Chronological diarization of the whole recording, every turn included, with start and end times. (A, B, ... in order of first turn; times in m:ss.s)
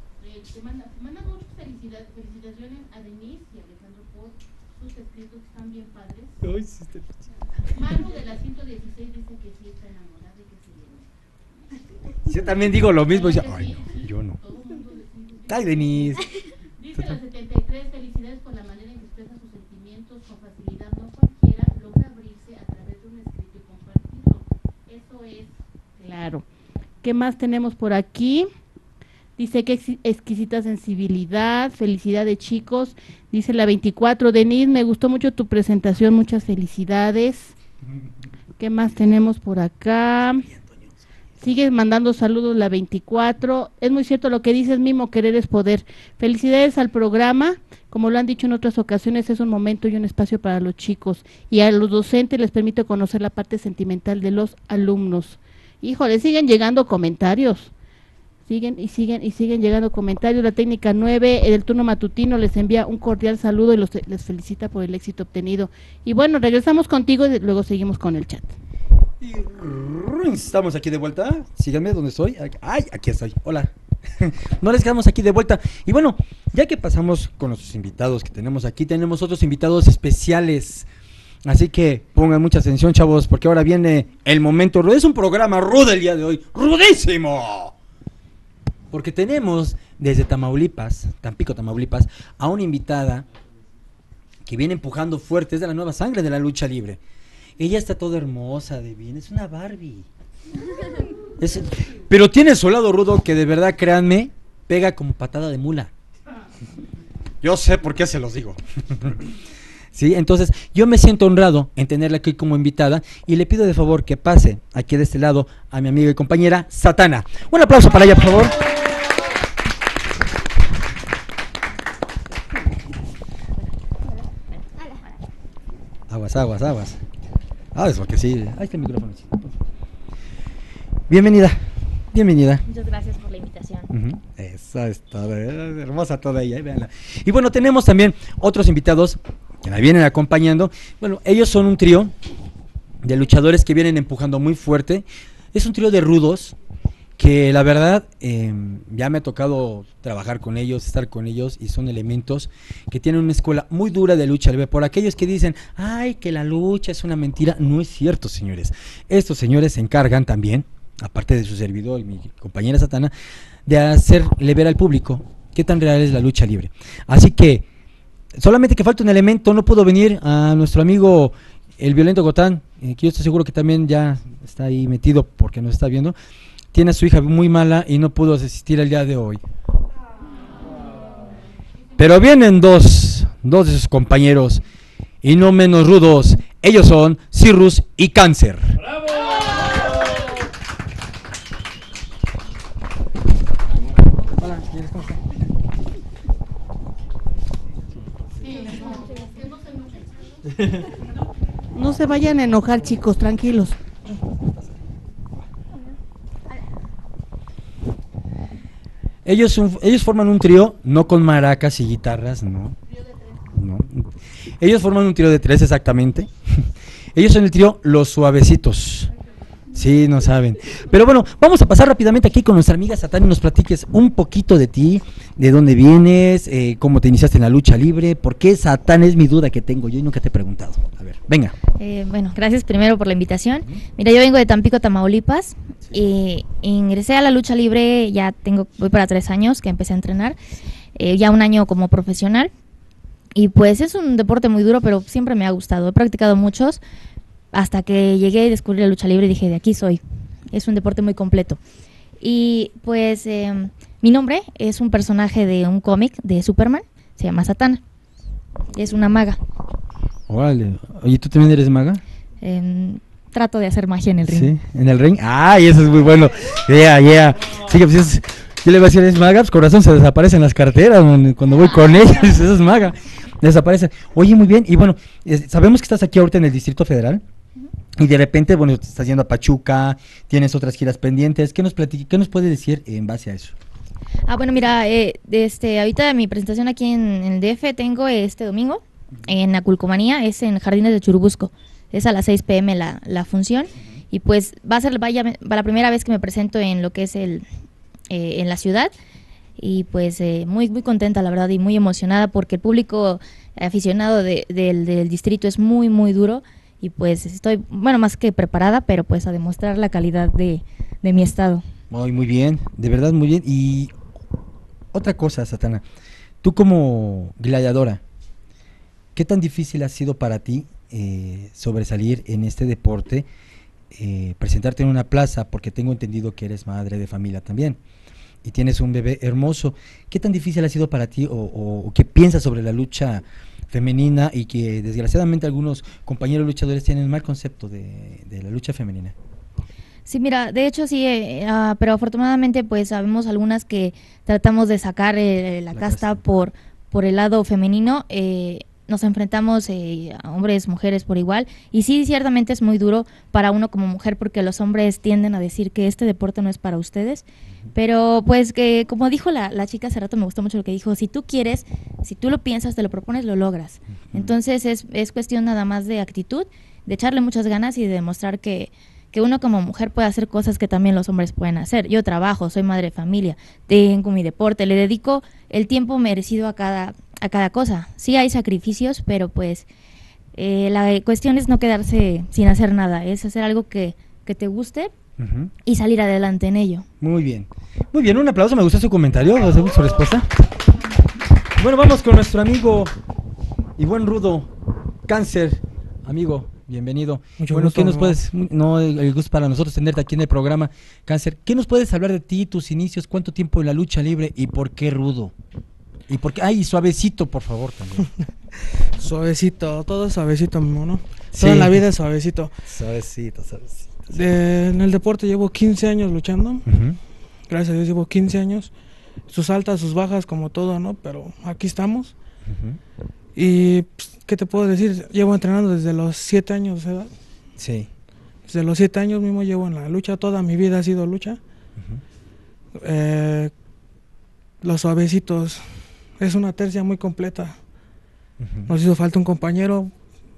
0:00.2-0:06.4 A
0:06.4-0:07.3 B
0:07.7-0:11.1 A
0:12.1-0:26.1 A
0:12.3-0:14.4 B
0:15.5-0:16.3 B
0:26.0-0:26.4 C
0:27.0-0:28.5 C
0:29.4-0:37.5 C
0:38.6-0:40.5 C
0:40.6-0:40.8 B
0:41.4-0:57.7 C
0:58.5-1:08.5 C
1:09.2-1:20.9 B
1:21.4-1:27.7 B
1:28.9-1:33.3 B
1:34.4-1:37.0 B
1:37.6-1:40.1 B
1:41.4-1:45.9 B
1:47.4-1:49.3 B
1:49.9-1:58.6 B
2:04.5-2:05.2 D
2:06.1-2:07.0 B
2:07.7-2:09.6 B
2:11.1-2:12.6 B
2:12.6-2:13.9 D
2:13.9-2:22.1 B
2:23.0-2:26.6 B
2:27.2-2:43.1 B
2:43.7-2:47.7 B
2:48.4-2:56.2 B
2:56.7-2:59.4 B
3:00.3-3:02.5 A
3:02.0-3:04.6 B
3:05.2-3:08.8 B
3:13.8-3:14.4 A
3:14.4-3:15.2 B
3:18.4-3:20.7 A
3:20.6-3:20.9 B
3:21.7-3:23.8 C
3:29.2-3:32.8 B
3:32.9-3:33.6 A
3:33.5-3:34.1 B
3:34.6-3:39.1 B
3:39.2-3:40.1 A
3:39.7-3:51.6 B
3:51.8-4:00.4 D
4:01.0-4:02.5 D
4:03.4-4:06.8 D
4:07.5-4:10.0 D
4:10.5-4:11.6 D
4:12.2-4:17.8 D
4:18.7-4:19.4 D
4:20.3-4:22.0 B
4:22.4-4:24.5 D
4:24.3-4:37.2 B
4:38.0-4:43.6 B
4:44.3-4:57.5 D
4:58.1-4:58.9 D
4:59.6-5:11.6 D
5:11.9-5:13.9 B
5:14.9-5:15.8 B
5:16.4-5:18.0 B
5:19.2-5:23.3 B
5:23.9-5:27.8 B
5:28.4-5:39.2 B
5:40.1-6:19.7 D
5:45.7-5:46.2 B
6:20.3-6:24.9 D
6:25.2-6:25.5 B
6:25.6-6:26.9 D
6:27.0-6:30.3 B
6:31.6-6:32.9 B
6:33.8-6:34.5 B
6:35.1-6:45.3 B
6:37.4-6:38.2 E
6:46.1-6:48.1 B
6:49.0-6:52.5 E
6:51.3-6:51.8 B
6:52.6-6:54.2 B
6:54.1-6:56.7 E
6:56.7-6:57.0 B
6:57.5-6:58.7 E
6:59.3-7:02.2 E
7:02.4-7:02.8 B
7:03.4-7:07.1 E
7:07.6-7:07.9 B
7:08.4-7:11.4 E
7:11.8-7:12.0 B
7:12.8-7:13.5 E
7:14.6-7:17.6 E
7:18.4-7:18.7 B
7:18.7-7:19.9 E